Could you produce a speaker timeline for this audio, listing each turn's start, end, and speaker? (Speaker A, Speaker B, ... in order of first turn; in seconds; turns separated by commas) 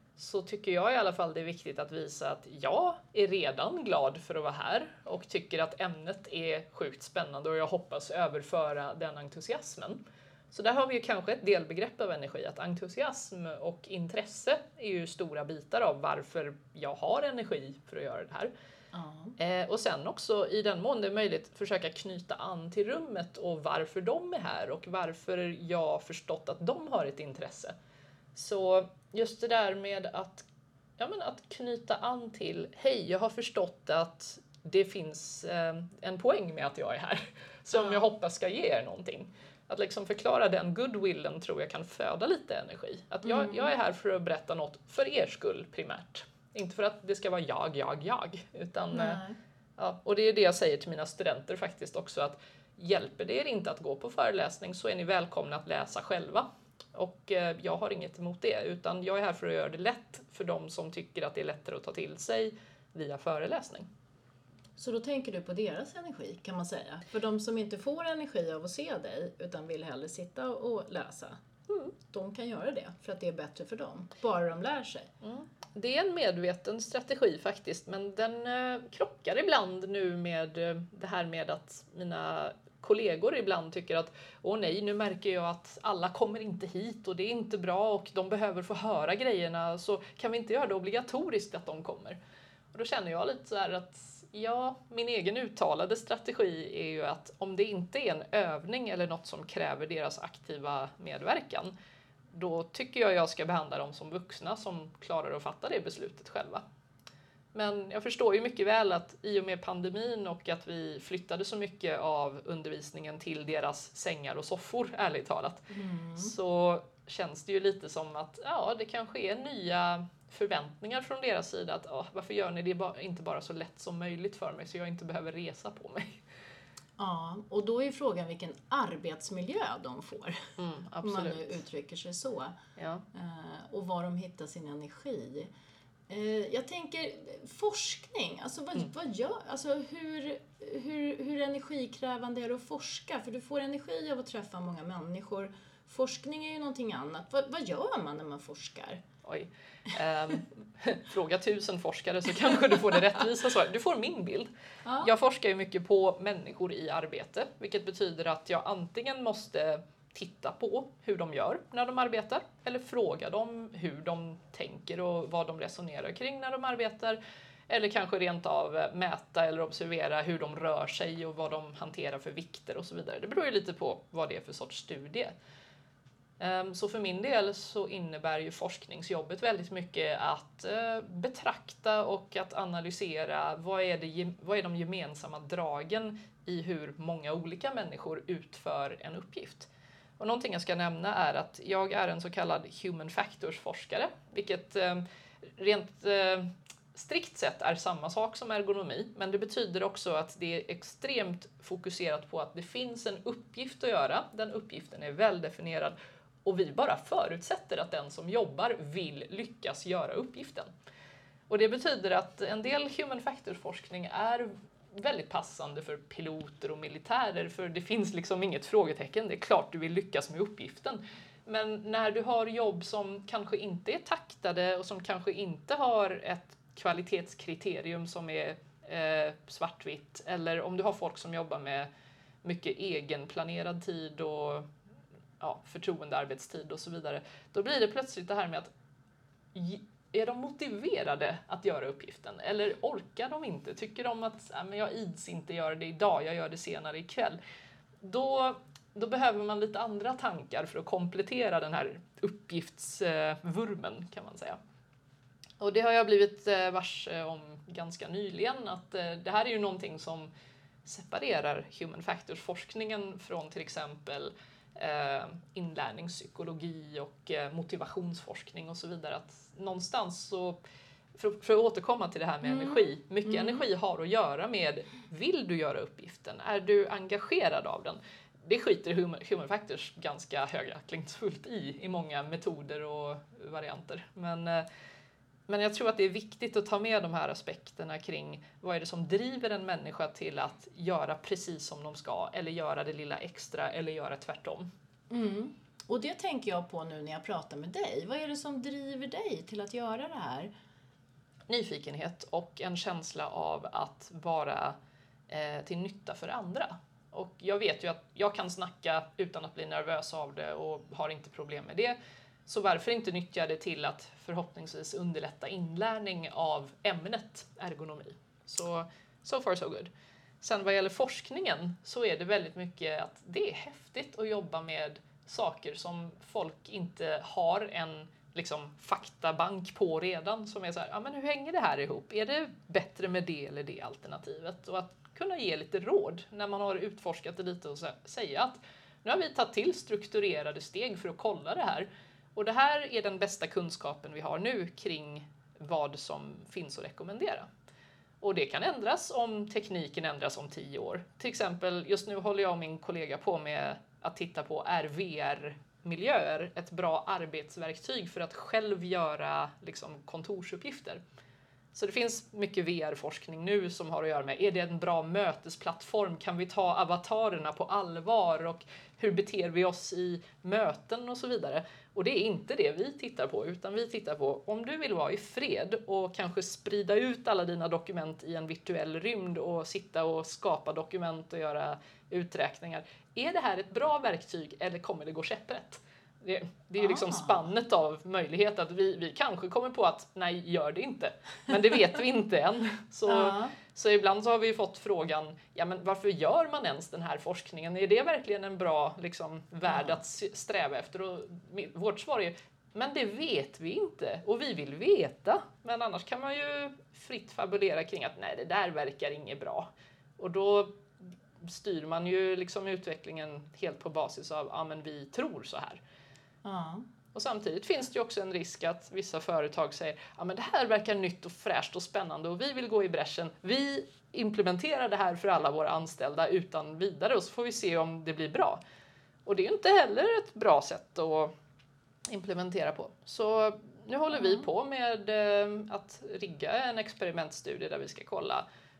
Speaker A: 0.2-10.0, Speaker A: 10.5-18.5, Speaker B: 18.9-19.4, Speaker A: 19.4-27.7, Speaker A: 28.3-30.4, Speaker A: 31.0-49.2, Speaker B: 43.2-43.7, Speaker B: 48.9-49.4, Speaker A: 49.8-63.9, Speaker B: 64.8-71.4, Speaker B: 72.0-75.1, Speaker A: 75.2-92.2, Speaker A: 92.7-101.7, Speaker A: 102.3-106.6, Speaker A: 107.5-126.2, Speaker B: 115.7-116.3, Speaker B: 127.0-132.6, Speaker A: 130.6-131.6, Speaker A: 132.8-133.0, Speaker B: 133.1-135.5, Speaker B: 136.1-149.0, Speaker A: 149.2-154.5, Speaker B: 154.8-155.1, Speaker A: 155.0-175.3, Speaker A: 176.4-210.7, Speaker A: 211.5-231.9, Speaker A: 232.4-234.7, Speaker A: 235.4-238.7, Speaker A: 239.5-247.4, Speaker A: 248.0-254.6, Speaker A: 255.6-260.3, Speaker A: 260.8-270.6, Speaker A: 271.1-284.6, Speaker B: 272.4-273.6, Speaker A: 285.5-294.7, Speaker B: 295.1-300.5, Speaker A: 301.5-304.8, Speaker A: 305.3-347.5, Speaker A: 348.2-361.0, Speaker A: 361.7-415.8, Speaker B: 386.8-387.4, Speaker B: 393.1-393.5, Speaker B: 399.7-400.0, Speaker B: 416.4-416.9, Speaker A: 417.1-428.6, Speaker A: 429.2-431.3, Speaker A: 432.1-438.4, Speaker B: 434.1-434.5